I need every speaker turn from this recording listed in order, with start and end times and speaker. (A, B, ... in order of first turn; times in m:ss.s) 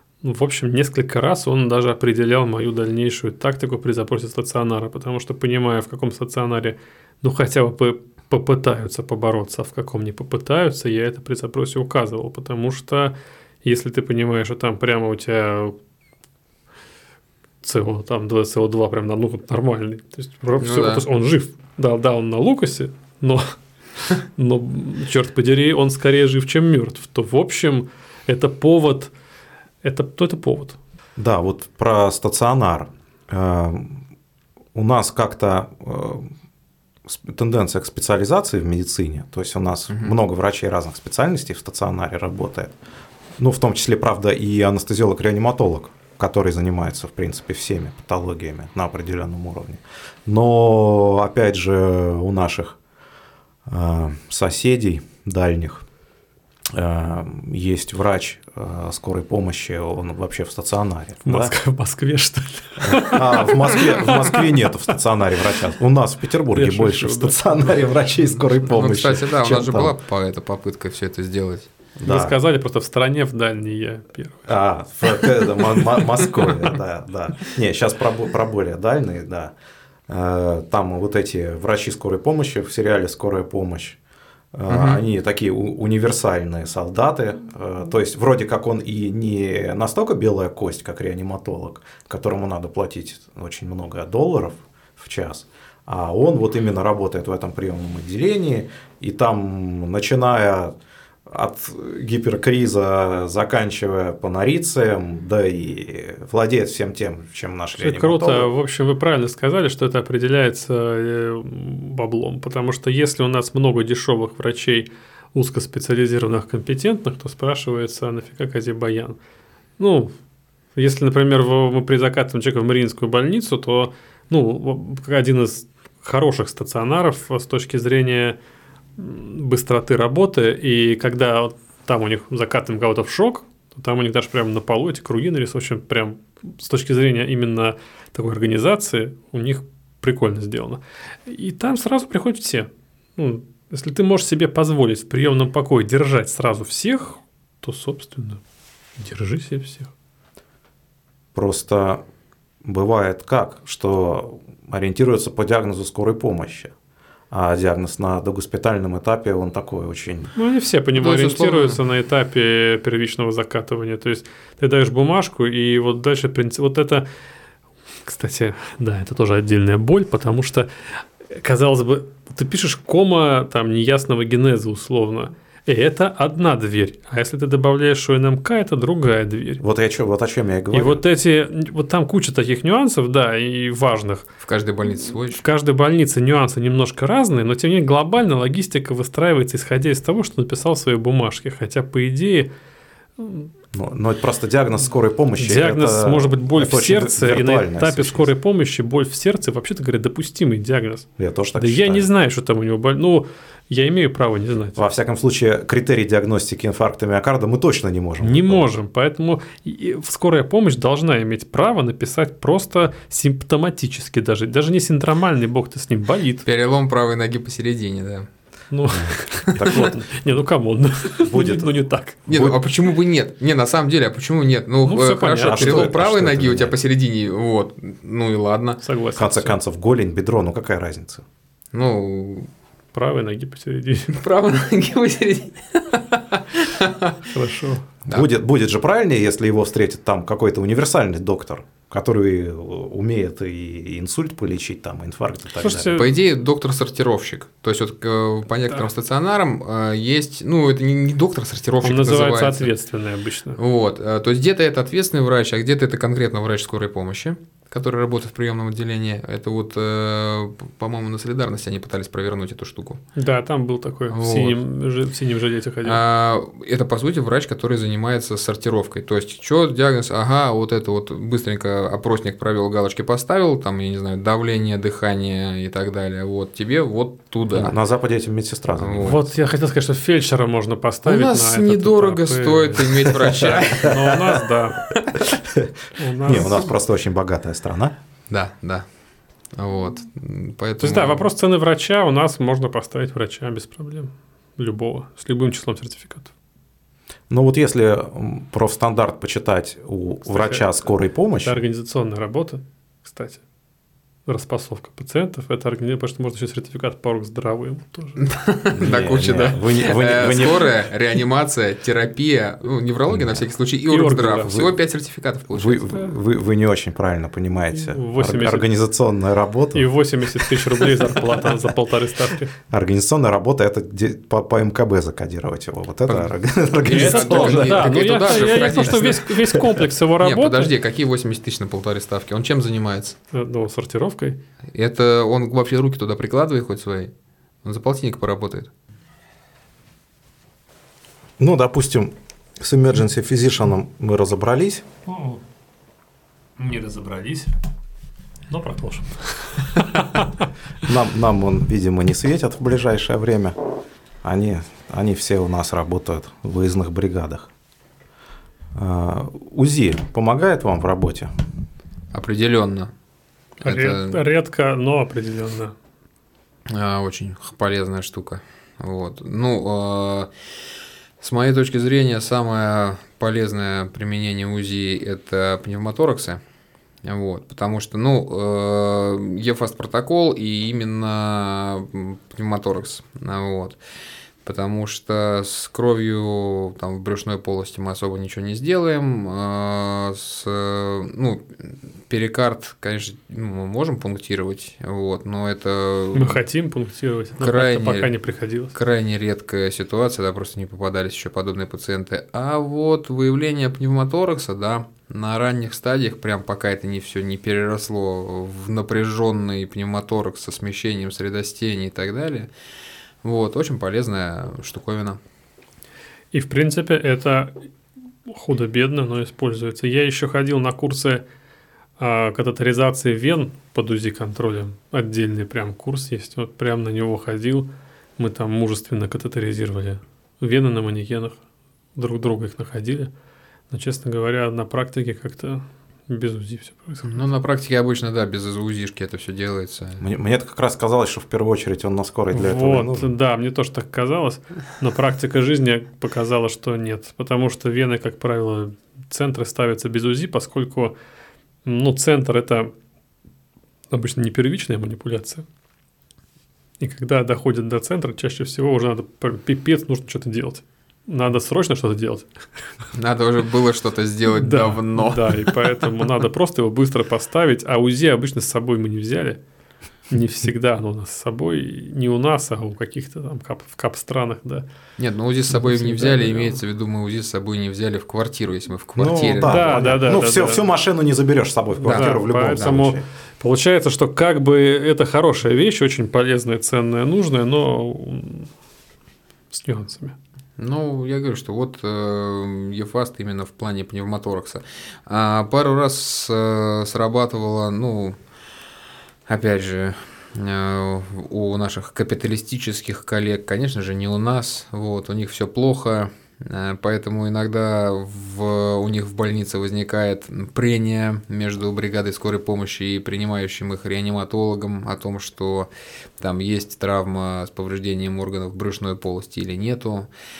0:00.2-0:15.8 A
0:17.6-0:29.1 A
0:20.6-0:21.0 B
0:29.8-0:30.8 A
0:31.2-0:34.0 C
0:34.7-0:36.3 C
0:37.0-0:42.7 C
0:43.4-0:52.8 C
0:53.7-0:55.8 C
0:56.7-1:01.5 C
1:01.2-1:04.8 A
1:02.8-1:09.9 C
1:06.5-1:07.8 A
1:08.7-1:11.7 B
1:12.0-1:12.4 C
1:12.0-1:14.5 A
1:14.4-1:19.5 C
1:20.1-1:24.0 C
1:24.5-1:40.8 C
1:24.7-1:25.0 B
1:41.3-1:48.5 C
1:47.8-1:59.2 A
1:59.8-2:00.1 A
2:00.8-2:08.4 A
2:09.0-2:28.4 A
2:29.0-2:29.9 A
2:31.3-2:32.0 C
2:32.6-2:36.7 C
2:37.3-2:40.3 C
2:40.4-2:47.0 A
2:41.0-2:41.8 B
2:48.0-2:59.6 A
2:59.6-3:01.0 C
3:00.7-3:04.3 A
3:04.4-3:05.4 B
3:05.3-3:12.5 A
3:13.2-3:13.5 A
3:13.7-3:18.3 C
3:15.4-3:24.8 A
3:21.2-3:22.1 C
3:24.8-3:28.7 C
3:28.2-3:36.4 A
3:36.4-3:38.3 B
3:38.7-3:42.2 A
3:38.9-3:40.0 C
3:41.2-3:41.7 C
3:42.3-3:48.8 B
3:42.3-3:42.6 C
3:44.8-3:45.9 A
3:45.4-3:46.8 C
3:48.8-3:49.6 A
3:49.2-3:51.2 C
3:51.7-3:52.5 B
3:52.9-3:54.2 A
3:54.1-3:57.2 B
3:57.2-3:57.9 A
3:58.0-4:06.0 C
4:05.6-4:06.1 A
4:05.9-4:12.7 B
4:11.8-4:13.6 A
4:13.6-4:23.0 B
4:23.2-4:26.0 A
4:24.1-4:24.6 B
4:25.8-4:37.7 B
4:37.5-4:39.2 C
4:38.8-4:39.2 B
4:39.0-4:44.9 A
4:41.0-4:44.1 B
4:43.4-4:44.4 C
4:46.0-4:46.6 A
4:46.2-4:47.9 C
4:46.3-4:46.7 B
4:48.3-4:48.9 B
4:49.5-4:51.2 B
4:50.8-4:56.3 A
4:57.3-5:01.6 C
5:00.2-5:03.4 A
5:04.2-5:08.2 A
5:08.2-5:15.9 B
5:08.7-5:10.7 C
5:13.9-5:14.7 A
5:15.5-5:19.9 C
5:17.7-5:18.7 A
5:19.7-5:22.5 A
5:22.7-5:28.8 C
5:26.1-5:29.4 B
5:26.8-5:30.7 A
5:29.5-5:29.8 C
5:30.2-5:33.2 B
5:33.3-5:34.4 A
5:34.7-5:37.1 B
5:37.6-5:38.7 B
5:41.4-5:44.8 C
5:45.0-5:45.4 A
5:46.6-5:47.5 A
5:48.5-5:50.5 A
5:50.8-5:53.6 C
5:54.2-5:57.5 C
5:58.7-6:01.4 C
6:02.1-6:02.9 B
6:03.6-6:05.7 A
6:03.6-6:04.2 B
6:06.7-6:10.3 B
6:11.2-6:16.4 B
6:17.0-6:23.8 B
6:24.4-6:36.4 B
6:36.1-6:38.7 A
6:37.4-6:38.1 B
6:38.7-6:52.5 B
6:53.2-6:55.2 B
6:56.3-6:57.6 A
6:58.2-7:01.2 A
7:02.0-7:11.4 A
7:12.0-7:13.1 A
7:13.7-7:17.2 A
7:17.0-7:20.0 B
7:20.0-7:23.1 C
7:22.3-7:30.9 A
7:31.6-7:32.7 A
7:33.9-7:35.4 A
7:36.8-7:42.3 A
7:42.9-7:45.7 B
7:44.3-7:49.4 A
7:50.1-7:54.6 A
7:55.0-7:59.8 B
7:55.5-7:56.5 A
7:59.0-8:03.0 C
7:59.4-8:00.6 A
8:01.8-8:08.5 A
8:01.8-8:02.7 B
8:09.5-8:10.2 A
8:10.6-8:18.2 B
8:19.3-8:40.1 B